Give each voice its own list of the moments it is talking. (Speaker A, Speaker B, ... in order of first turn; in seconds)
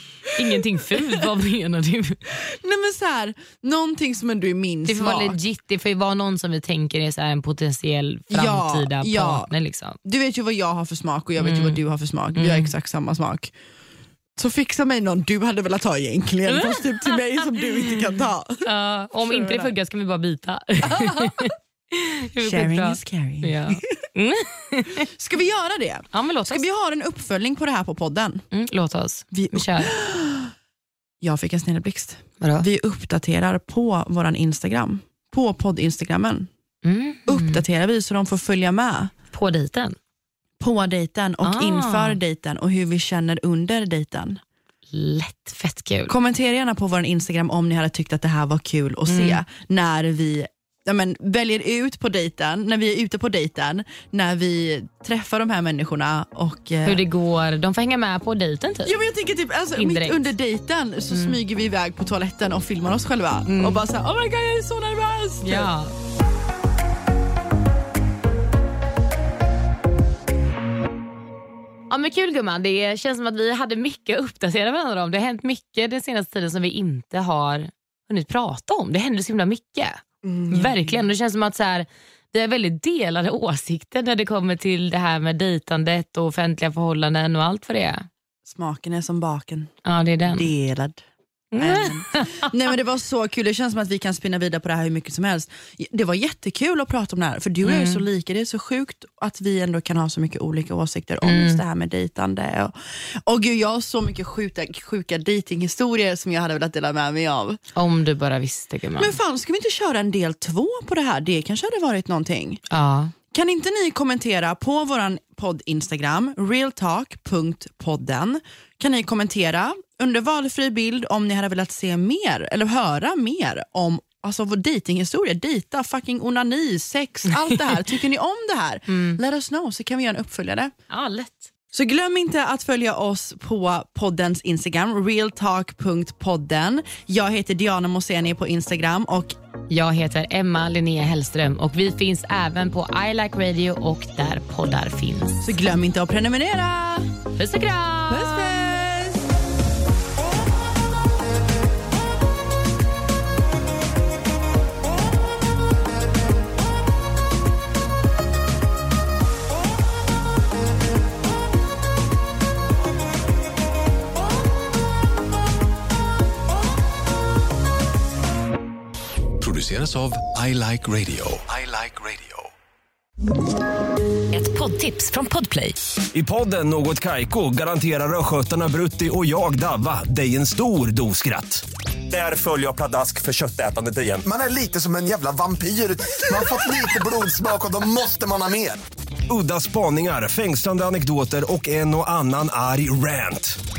Speaker A: 0.3-2.2, 4.8-10.0, 11.4-11.8, 12.3-12.7, 16.5-18.1, 18.6-25.1, 26.1-26.6, 28.5-29.9, 32.4-32.7, 36.8-37.6, 39.3-40.0, 41.4-42.2, 44.9-46.1, 49.1-49.4, 56.8-58.9, 59.8-60.3, 61.1-61.4, 63.5-63.8, 65.4-65.9, 71.9-88.0, 89.8-90.5, 91.5-92.5, 97.6-98.0, 101.2-101.6, 107.7-109.2, 112.7-113.1, 128.9-129.2, 130.9-131.5, 139.7-145.5, 147.4-148.5, 174.3-175.7
Speaker B: 0.5-1.0, 2.4-5.4, 8.3-9.5, 10.0-13.5, 14.3-18.6, 19.2-19.7, 20.8-21.5, 22.4-24.0, 25.1-28.4, 29.3-30.5, 31.2-36.5, 37.3-39.1, 40.6-44.4, 46.1-57.0, 58.8-65.7, 80.2-81.0, 88.4-89.7, 90.2-91.0, 91.6-107.6, 109.0-112.6, 113.3-130.7, 131.7-139.3, 145.4-147.1, 148.1-149.3
Speaker C: 169.4-172.5
Speaker D: 176.1-184.2, 189.3-193.6
Speaker E: 184.3-188.8